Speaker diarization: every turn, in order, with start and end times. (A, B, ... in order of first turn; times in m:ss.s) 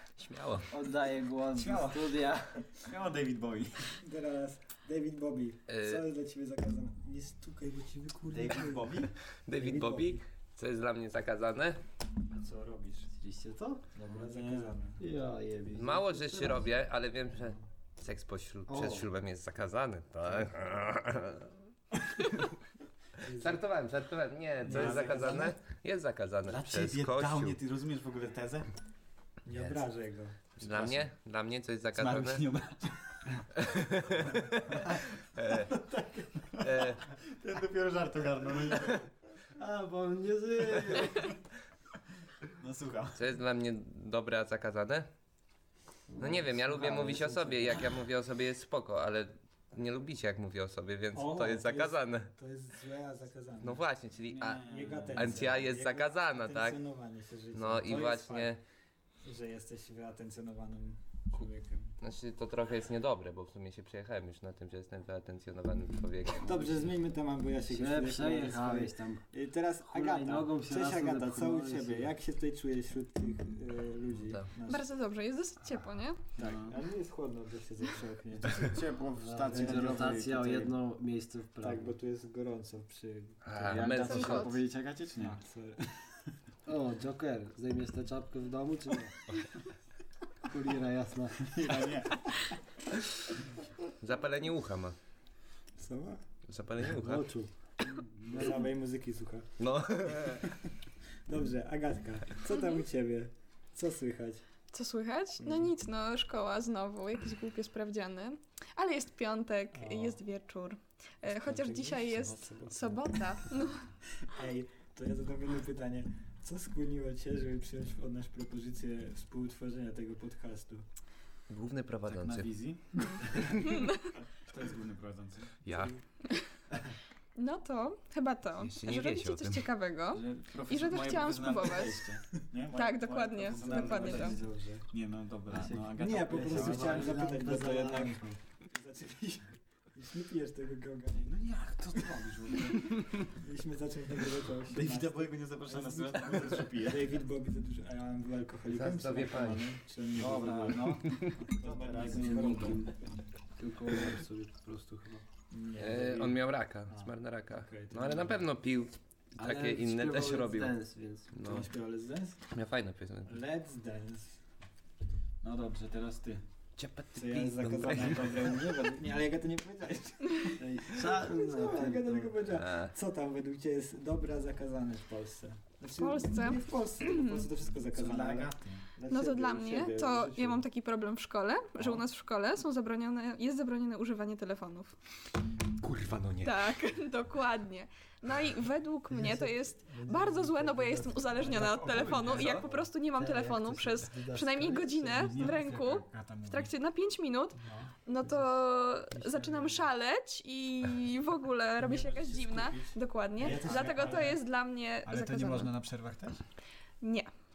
0:00.2-0:00.7 A
0:00.7-0:02.7 B
0:01.5-0:04.0 C
0:04.0-0:10.2 D
0:05.7-0:06.0 A
0:08.3-0:09.1 C
0:09.5-0:11.8 A
0:12.4-0:13.1 D
0:13.2-0:16.7 B
0:14.0-0:15.0 D
0:15.7-0:21.6 A
0:18.7-0:19.1 B
0:23.2-0:23.6 D
0:23.3-0:27.6 A
0:24.6-0:25.5 C
0:24.6-0:25.6 D
0:26.5-0:28.6 C
0:29.4-0:30.4 D
0:30.6-0:32.4 A
0:30.6-0:31.1 C
0:31.9-0:33.4 C
0:33.6-0:35.7 A
0:34.2-0:35.0 C
0:35.7-0:36.4 D
0:36.6-0:37.0 A
0:36.6-0:39.1 C
0:39.6-0:41.4 B
0:42.5-0:43.2 C
0:43.1-0:45.1 A
0:46.1-0:47.4 B
0:46.2-0:52.3 A
0:46.3-0:47.9 D
0:51.1-0:53.8 D
0:53.6-0:56.8 A
0:54.3-0:55.6 C
0:54.7-0:58.6 D
0:57.5-0:58.6 A
0:59.2-1:02.0 D
1:02.0-1:06.7 A
1:06.4-1:14.8 D
1:07.7-1:09.2 B
1:09.9-1:12.1 B
1:14.7-1:16.2 E
1:16.4-1:18.8 D
1:16.4-1:16.7 C
1:18.4-1:20.8 C
1:19.2-1:21.9 B
1:19.5-1:19.8 D
1:21.6-1:24.0 D
1:23.4-1:24.6 A
1:23.6-1:25.4 C
1:24.0-1:24.6 E
1:25.2-1:26.1 D
1:26.6-1:29.3 B
1:30.4-1:31.6 B
1:31.4-1:32.4 C
1:34.0-1:35.0 A
1:35.8-1:36.2 D
1:36.5-1:37.3 A
1:36.9-1:37.5 B
1:38.1-1:38.6 C
1:38.3-1:38.6 B
1:38.3-1:39.5 D
1:39.6-1:40.5 A
1:40.1-1:40.6 D
1:41.2-1:44.4 D
1:42.5-1:42.8 E
1:44.7-1:53.8 E
1:49.7-1:50.2 D
1:51.2-1:53.6 D
1:54.2-2:00.8 D
2:01.5-2:02.5 A
2:02.1-2:05.6 C
2:03.1-2:04.1 E
2:05.6-2:05.9 A
2:07.4-2:12.1 E
2:08.6-2:09.6 A
2:10.1-2:17.3 C
2:12.7-2:14.4 E
2:13.5-2:14.9 D
2:15.6-2:18.4 B
2:16.0-2:21.4 D
2:21.2-2:23.2 C
2:23.2-2:32.9 D
2:24.7-2:27.2 C
2:28.7-2:29.7 A
2:30.1-2:32.8 C
2:32.0-2:32.9 B
2:33.6-2:35.2 B
2:35.5-2:38.4 D
2:35.8-2:40.8 A
2:39.4-2:41.3 B
2:41.3-2:41.7 A
2:41.4-2:42.4 D
2:42.5-2:43.4 A
2:43.3-2:44.4 D
2:45.4-2:46.4 C
2:46.8-2:48.6 A
2:47.1-3:00.6 D
2:47.7-2:48.5 C
2:50.6-2:52.4 B
2:52.5-2:52.9 A
2:55.9-2:57.4 E
2:57.9-2:58.8 C
2:59.1-3:04.9 E
3:05.8-3:06.8 A
3:06.4-3:25.7 E
3:09.1-3:11.8 D
3:11.5-3:12.7 C
3:13.1-3:15.5 B
3:15.2-3:16.7 C
3:17.6-3:17.9 D
3:18.2-3:18.5 B
3:19.1-3:19.8 B
3:21.8-3:24.4 C
3:23.4-3:24.4 D
3:25.0-3:26.4 C
3:27.0-3:27.3 E